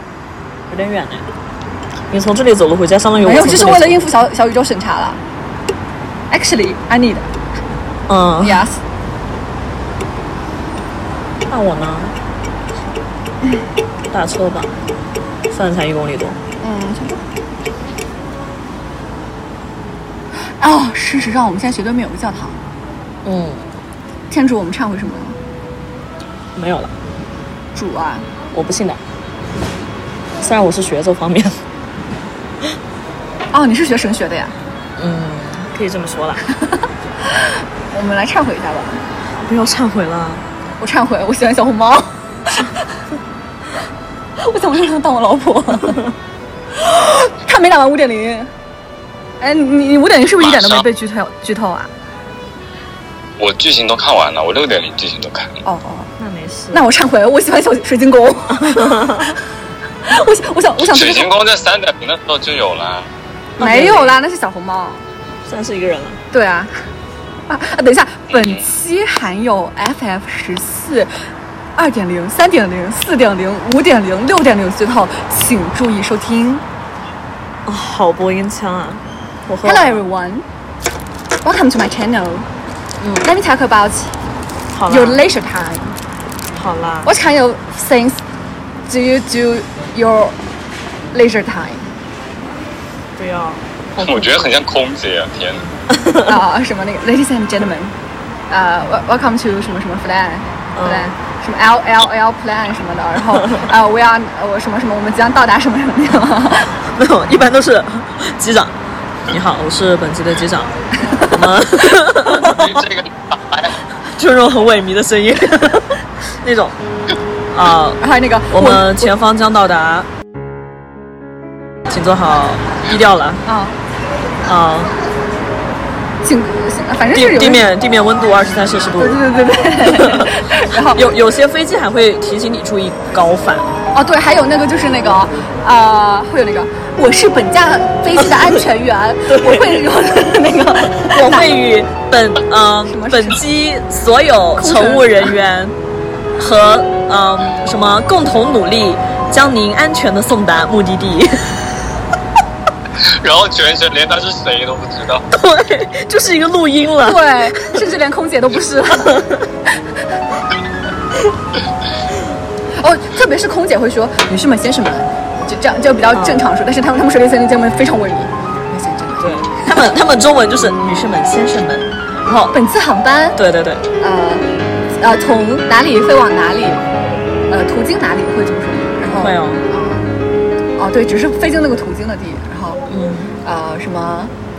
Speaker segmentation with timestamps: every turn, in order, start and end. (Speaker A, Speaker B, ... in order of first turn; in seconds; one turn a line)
Speaker A: 0.7-1.2
Speaker A: 2.1-4.0
Speaker B: 3.2-5.2
Speaker B: 6.3-7.3
Speaker A: 8.1-8.7
Speaker B: 8.4-8.8
Speaker A: 11.5-12.1
Speaker A: 14.1-14.7
Speaker A: 15.5-16.4
Speaker B: 16.6-17.2
Speaker B: 20.6-22.6
Speaker A: 23.2-23.6
Speaker B: 24.3-25.4
Speaker A: 26.6-26.9
Speaker B: 27.7-28.3
Speaker A: 28.5-29.0
Speaker A: 30.4-31.6
Speaker B: 33.5-34.5
Speaker A: 35.0-36.4
Speaker B: 36.7-39.0
Speaker A: 39.4-40.4
Speaker B: 40.8-42.8
Speaker B: 44.4-46.0
Speaker B: 46.7-48.5
Speaker B: 49.4-51.9
Speaker C: 50.4-50.8
Speaker C: 53.4-55.6
Speaker B: 55.6-56.1
Speaker A: 56.2-56.8
Speaker B: 56.7-59.2
Speaker A: 58.6-59.3
Speaker B: 60.0-61.3
Speaker C: 60.9-63.1
Speaker A: 63.6-64.2
Speaker B: 63.6-65.0
Speaker A: 65.5-66.2
Speaker B: 66.3-66.7
Speaker B: 67.5-71.1
Speaker C: 68.3-68.6
Speaker B: 71.8-76.6
Speaker A: 77.7-80.0
Speaker B: 79.6-80.4
Speaker B: 81.4-82.5
Speaker A: 83.0-83.3
Speaker B: 83.2-84.1
Speaker A: 84.7-85.2
Speaker B: 84.9-86.0
Speaker A: 86.5-87.1
Speaker B: 87.0-88.2
Speaker B: 88.9-90.4
Speaker B: 91.1-91.9
Speaker A: 93.2-94.5
Speaker C: 94.0-95.7
Speaker B: 96.2-97.9
Speaker B: 98.5-106.8
Speaker A: 100.8-101.1
Speaker A: 106.9-108.7
Speaker A: 109.3-112.8
Speaker B: 111.0-111.3
Speaker C: 112.4-113.7
Speaker A: 114.2-116.7
Speaker A: 117.5-118.0
Speaker B: 118.0-119.1
Speaker A: 118.5-120.1
Speaker A: 121.9-123.4
Speaker B: 123.5-123.8
Speaker A: 124.4-124.9
Speaker B: 126.2-127.6
Speaker A: 127.1-129.2
Speaker B: 129.0-131.1
Speaker A: 129.8-130.3
Speaker A: 130.9-133.7
Speaker B: 133.9-141.6
Speaker A: 139.3-139.8
Speaker A: 141.1-145.7
Speaker B: 142.8-143.4
Speaker B: 144.6-145.3
Speaker A: 146.4-151.4
Speaker C: 153.0-155.2
Speaker A: 155.3-157.8
Speaker B: 157.0-159.4
Speaker B: 162.8-169.7
Speaker A: 166.1-166.4
Speaker A: 169.2-172.6
Speaker B: 172.5-173.4
Speaker A: 173.3-173.8
Speaker B: 174.0-176.8
Speaker B: 177.5-180.1
Speaker A: 179.2-179.6
Speaker B: 180.8-182.8
Speaker A: 182.9-183.3
Speaker B: 183.4-184.3